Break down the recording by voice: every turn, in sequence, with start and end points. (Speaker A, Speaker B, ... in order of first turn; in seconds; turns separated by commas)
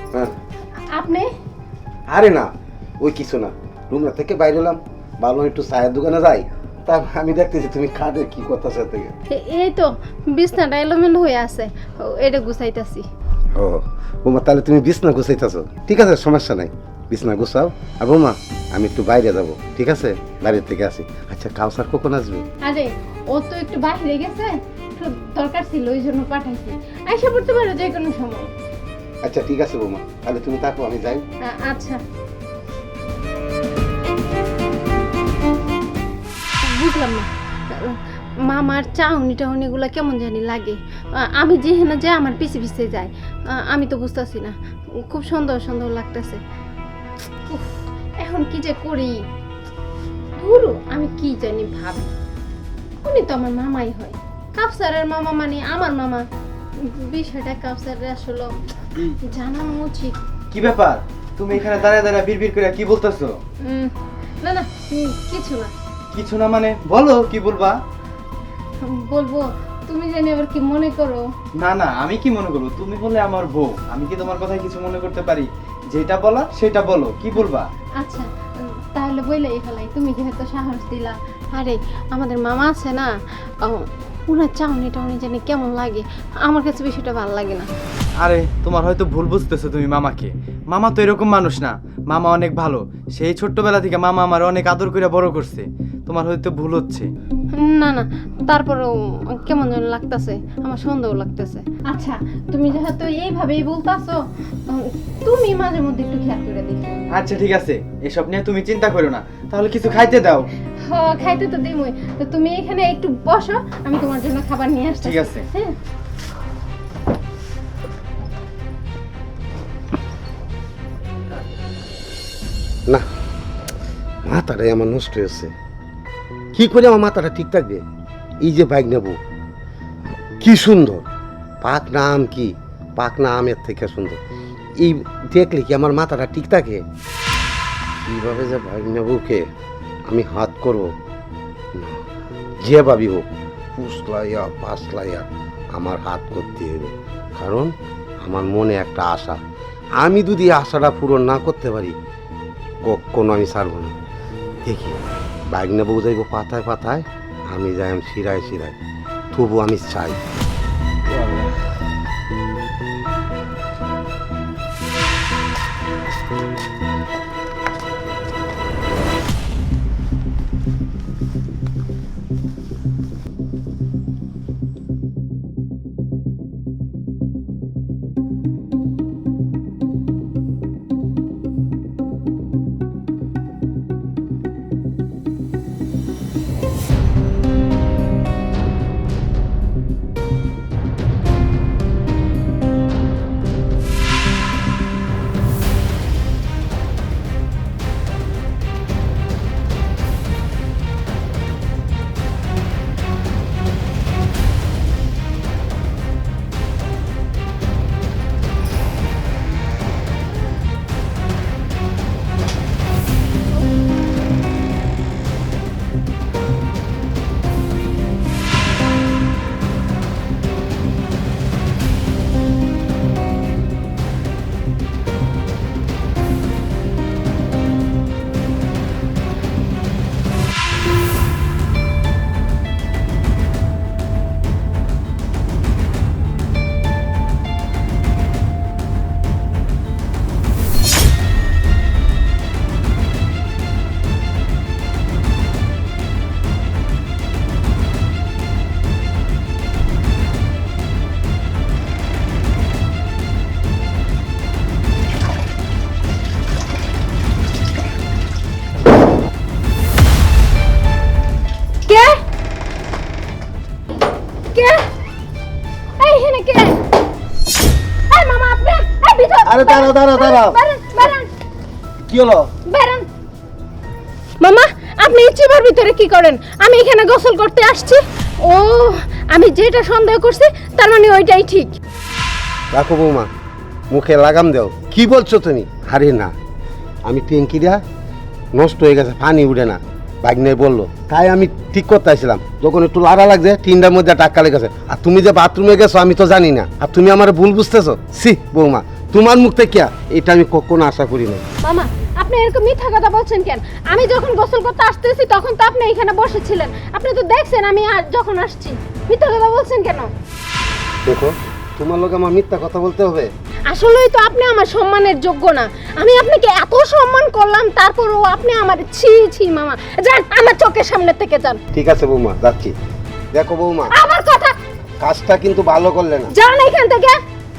Speaker A: 0.9-1.3, Speaker B: 2.1-9.2, Speaker A: 9.3-13.1, Speaker B: 13.6-22.4, Speaker A: 22.6-28.5, Speaker B: 29.2-31.2, Speaker A: 31.4-32.0, Speaker A: 36.6-46.4, Speaker A: 47.5-49.2, Speaker A: 50.4-52.1, Speaker A: 53.0-56.2, Speaker A: 56.8-58.5, Speaker A: 59.1-60.2, Speaker C: 60.5-63.4, Speaker A: 63.6-65.7, Speaker C: 66.1-67.8, Speaker A: 68.8-71.3, Speaker C: 71.6-77.7, Speaker A: 78.0-87.7, Speaker C: 88.2-97.1, Speaker A: 97.5-107.0, Speaker C: 107.1-110.5, Speaker A: 110.8-115.8, Speaker C: 115.0-115.5, Speaker B: 124.2-125.5, Speaker B: 126.5-127.8, Speaker B: 128.4-129.2, Speaker B: 130.4-131.1, Speaker B: 131.6-134.2, Speaker B: 134.8-136.8, Speaker B: 138.1-139.5, Speaker B: 140.1-140.9, Speaker B: 141.7-142.0, Speaker B: 142.6-149.4, Speaker B: 150.0-151.9, Speaker B: 152.8-153.9, Speaker B: 154.6-158.8, Speaker B: 159.3-160.2, Speaker B: 161.1-161.5, Speaker A: 261.9-262.2, Speaker A: 264.5-264.9, Speaker A: 266.0-266.8, Speaker A: 268.1-271.3, Speaker B: 269.4-270.6, Speaker B: 272.1-272.5, Speaker A: 272.7-273.1, Speaker A: 274.4-281.8, Speaker B: 282.7-283.3, Speaker B: 283.9-286.3, Speaker B: 287.1-287.8, Speaker B: 288.5-301.4, Speaker A: 301.6-310.1, Speaker B: 311.1-313.3, Speaker A: 313.7-321.6, Speaker B: 321.7-322.7, Speaker B: 323.3-323.9, Speaker A: 323.9-324.5, Speaker B: 325.0-326.3, Speaker A: 326.3-327.2